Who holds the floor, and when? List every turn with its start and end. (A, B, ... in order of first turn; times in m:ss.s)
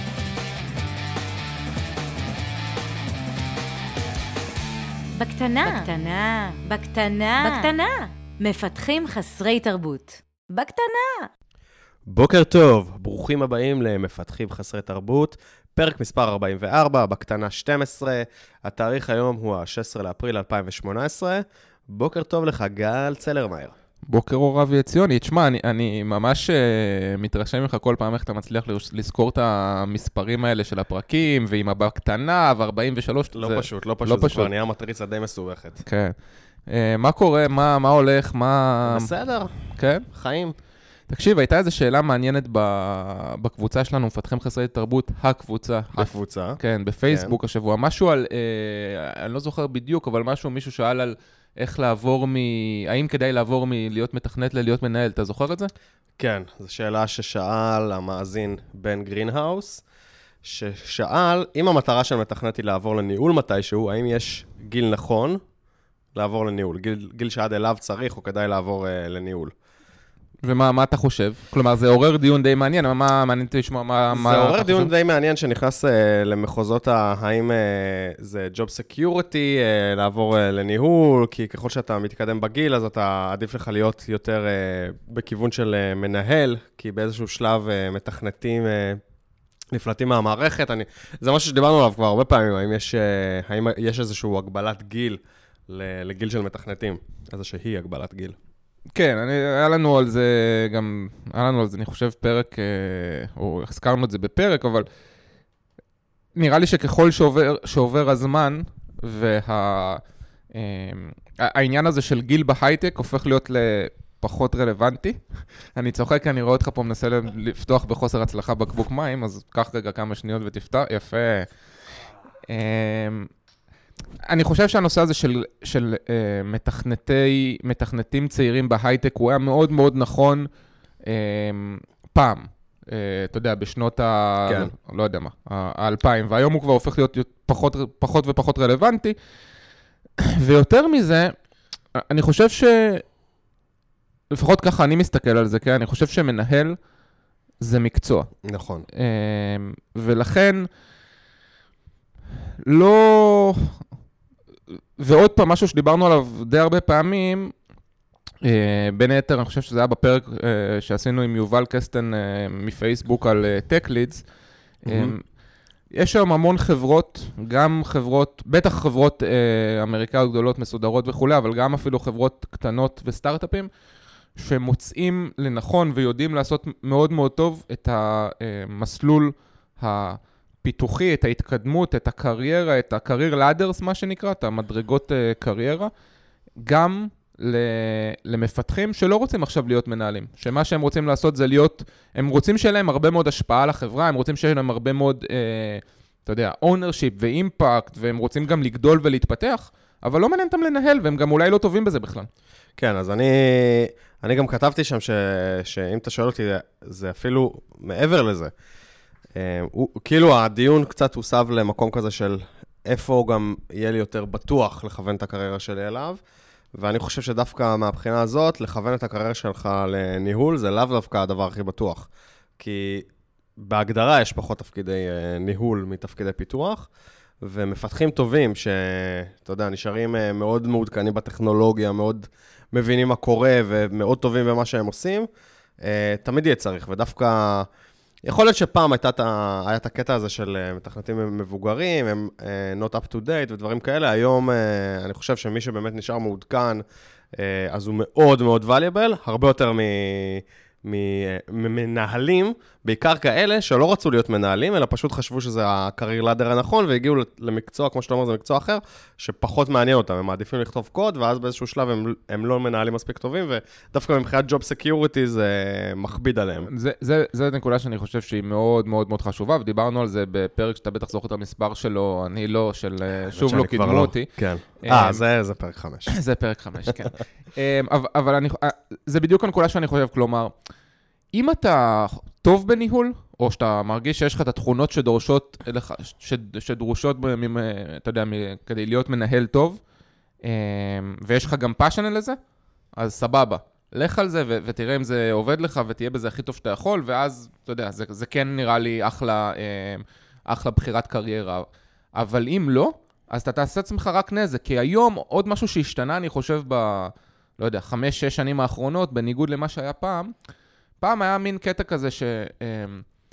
0:05.2-0:11.3 A
0:12.0-0:23.7 B
0:24.0-0:34.5 C
0:33.3-0:35.8 B
0:35.8-0:36.1 C
0:36.7-0:39.1 C
0:38.8-0:39.5 B
0:39.7-0:40.1 C
0:40.1-0:40.5 B
0:41.1-0:55.7 C
0:45.9-0:47.4 B
0:56.2-0:59.8 B
1:00.4-1:05.4 B
1:06.1-1:09.5 B
1:10.4-1:14.9 C
1:14.1-1:29.0 B
1:29.7-1:38.4 B
1:38.9-1:44.8 C
1:46.4-1:50.0 C
1:50.5-1:55.2 C
1:55.7-2:01.5 C
2:02.5-2:03.3 C
2:04.2-2:10.5 C
2:11.0-2:19.1 C
2:14.5-2:14.7 B
2:20.2-2:21.3 C
2:21.9-2:23.0 C
2:24.3-2:26.8 C
2:27.6-2:28.3 C
2:28.4-2:28.8 B
2:28.9-2:30.7 C
2:32.6-2:33.7 C
2:35.0-2:37.5 C
2:38.4-2:44.2 C
2:44.8-2:45.2 C
2:44.9-2:45.1 B
2:45.9-2:53.7 C
2:54.4-3:05.9 C
3:06.6-3:22.3 C
3:22.8-3:28.5 B
3:29.4-3:36.2 B
3:36.7-3:43.1 B
3:43.6-3:46.9 B
3:47.4-3:55.3 B
3:55.8-3:57.7 B
3:58.2-4:06.8 B
4:07.3-4:26.7 B
4:26.6-4:35.2 C
4:33.3-4:36.1 B
4:36.1-4:40.5 C
4:41.3-4:49.8 C
4:50.4-4:52.4 C
4:52.9-5:10.3 C
5:11.0-5:13.0 C